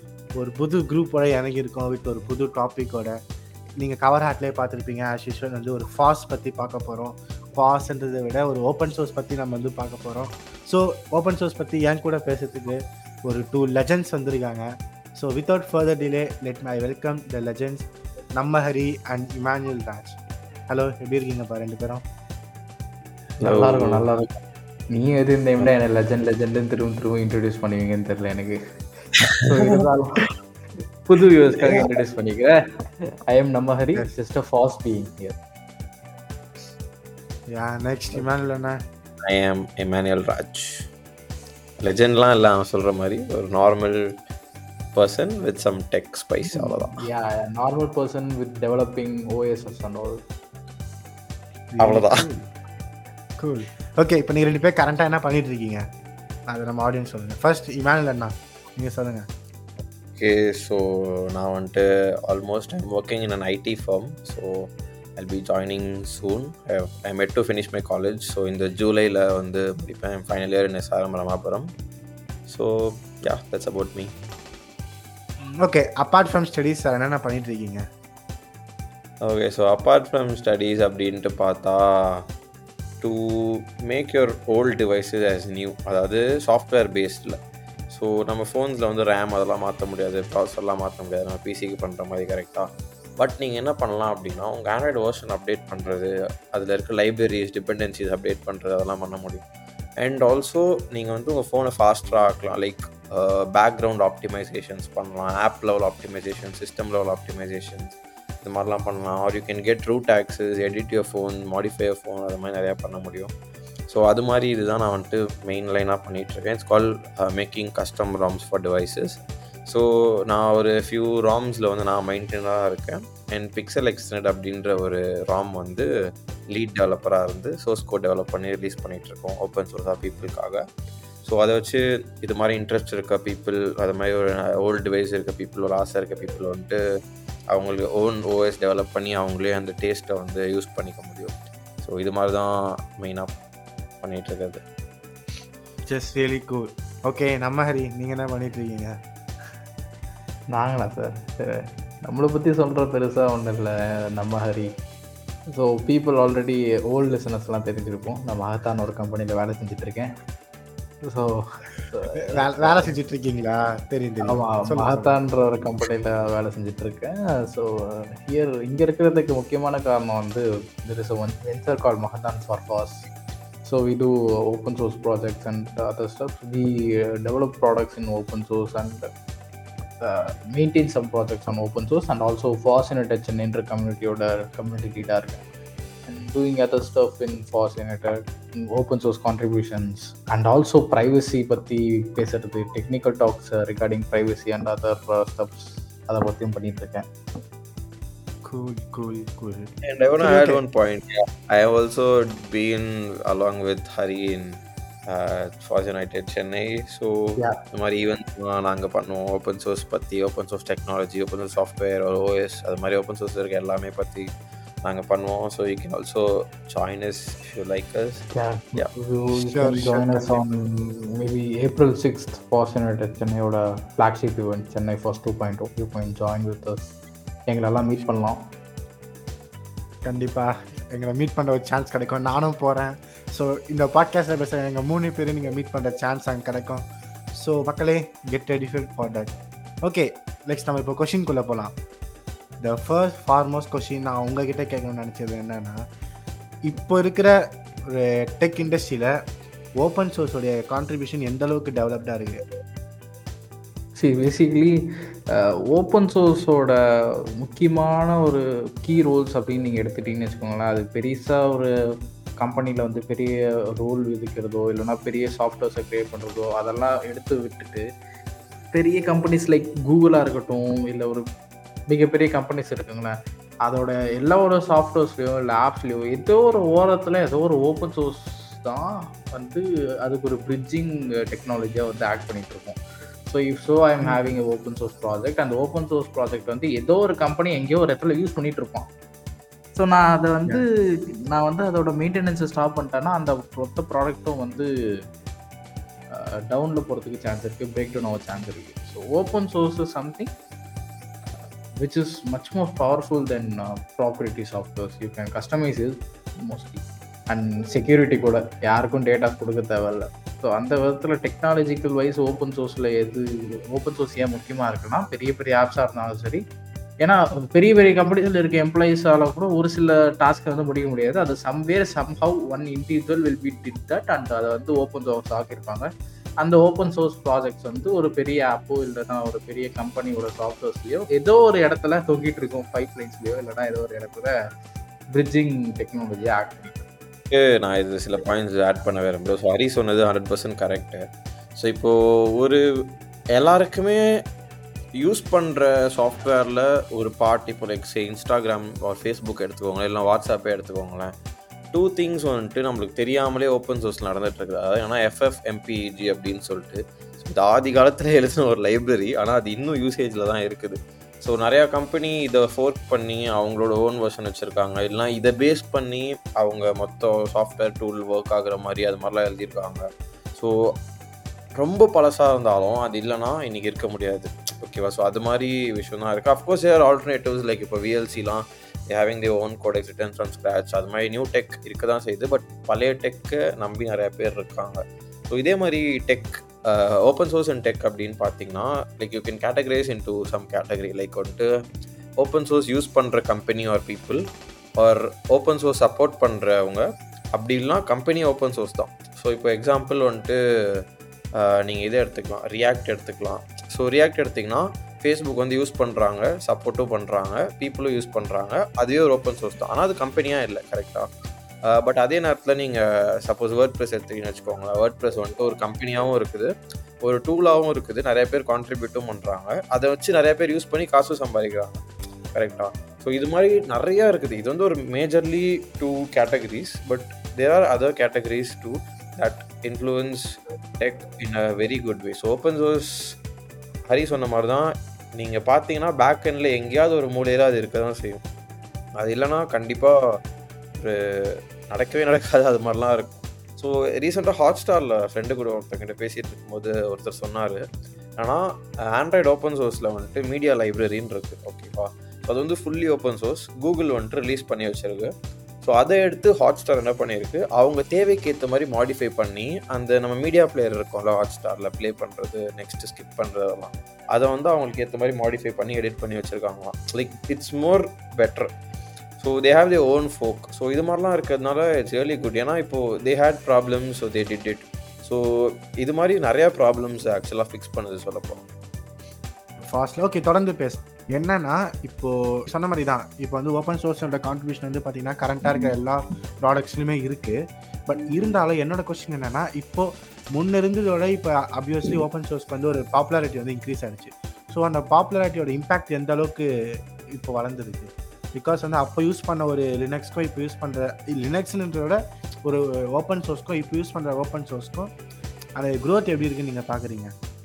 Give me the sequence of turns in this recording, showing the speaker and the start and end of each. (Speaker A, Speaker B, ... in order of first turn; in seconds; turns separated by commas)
Speaker A: 0.4-3.1, Speaker A: 3.8-14.6, Speaker A: 15.2-17.9, Speaker A: 18.4-20.2, Speaker A: 20.7-22.0, Speaker B: 23.4-24.1, Speaker C: 23.4-24.3, Speaker C: 24.9-28.6, Speaker C: 29.4-30.2, Speaker C: 31.1-32.5, Speaker C: 33.3-35.4, Speaker A: 37.5-38.7, Speaker B: 39.3-40.8, Speaker B: 41.8-44.0, Speaker B: 44.9-47.0, Speaker C: 47.0-50.2, Speaker A: 51.7-52.5, Speaker B: 51.8-52.2, Speaker A: 53.4-55.8, Speaker A: 56.5-59.2, Speaker B: 60.1-60.8, Speaker B: 61.3-64.5, Speaker B: 65.2-71.7, Speaker B: 72.5-74.1, Speaker A: 75.6-77.8, Speaker B: 79.2-82.2, Speaker B: 83.0-87.4, Speaker B: 87.9-92.7, Speaker B: 93.2-99.4, Speaker B: 100.0-113.3, Speaker B: 113.9-125.9, Speaker B: 126.5-130.6, Speaker B: 131.2-136.8, Speaker B: 137.5-143.3, Speaker B: 144.0-144.6, Speaker A: 145.9-148.9, Speaker C: 150.5-154.7, Speaker C: 155.6-160.1, Speaker C: 161.0-162.9, Speaker A: 162.2-165.2, Speaker C: 164.2-173.1, Speaker C: 173.6-179.1, Speaker C: 180.0-185.4, Speaker C: 186.1-188.2, Speaker C: 188.7-197.0, Speaker A: 198.4-199.7, Speaker B: 199.8-214.3, Speaker A: 200.2-200.6, Speaker B: 214.8-218.9, Speaker C: 218.3-226.9, Speaker A: 219.3-220.5, Speaker C: 227.5-228.4, Speaker A: 230.0-236.8, Speaker A: 237.4-239.3, Speaker A: 239.8-241.7, Speaker A: 242.6-245.8, Speaker A: 246.7-247.3, Speaker A: 247.9-249.1, Speaker A: 249.8-252.4, Speaker C: 254.0-254.8, Speaker C: 255.7-256.7, Speaker C: 257.4-261.7, Speaker C: 262.4-267.8, Speaker C: 268.7-271.2, Speaker C: 271.9-273.1, Speaker C: 273.6-288.9, Speaker A: 284.0-284.2, Speaker C: 289.7-290.6, Speaker C: 291.3-294.7, Speaker C: 296.1-300.3, Speaker C: 301.8-305.9, Speaker C: 306.5-316.4, Speaker C: 317.0-325.9, Speaker C: 326.4-334.3, Speaker C: 335.1-336.8, Speaker B: 337.3-341.0, Speaker B: 341.6-342.6, Speaker B: 343.3-344.0, Speaker B: 345.0-351.1, Speaker B: 351.7-369.8, Speaker B: 371.6-391.4, Speaker B: 392.2-394.2, Speaker B: 394.8-396.8, Speaker B: 397.3-400.4, Speaker B: 401.4-411.1, Speaker B: 411.7-416.5, Speaker B: 417.0-421.8, Speaker B: 422.3-430.2, Speaker B: 430.8-433.1, Speaker B: 433.9-438.2, Speaker B: 439.0-439.9, Speaker B: 440.8-447.6, Speaker B: 448.9-455.1, Speaker B: 455.6-468.5, Speaker B: 469.2-475.2, Speaker B: 475.8-478.5, Speaker A: 479.7-487.4, Speaker A: 487.9-496.4, Speaker A: 497.1-504.9, Speaker A: 505.6-507.1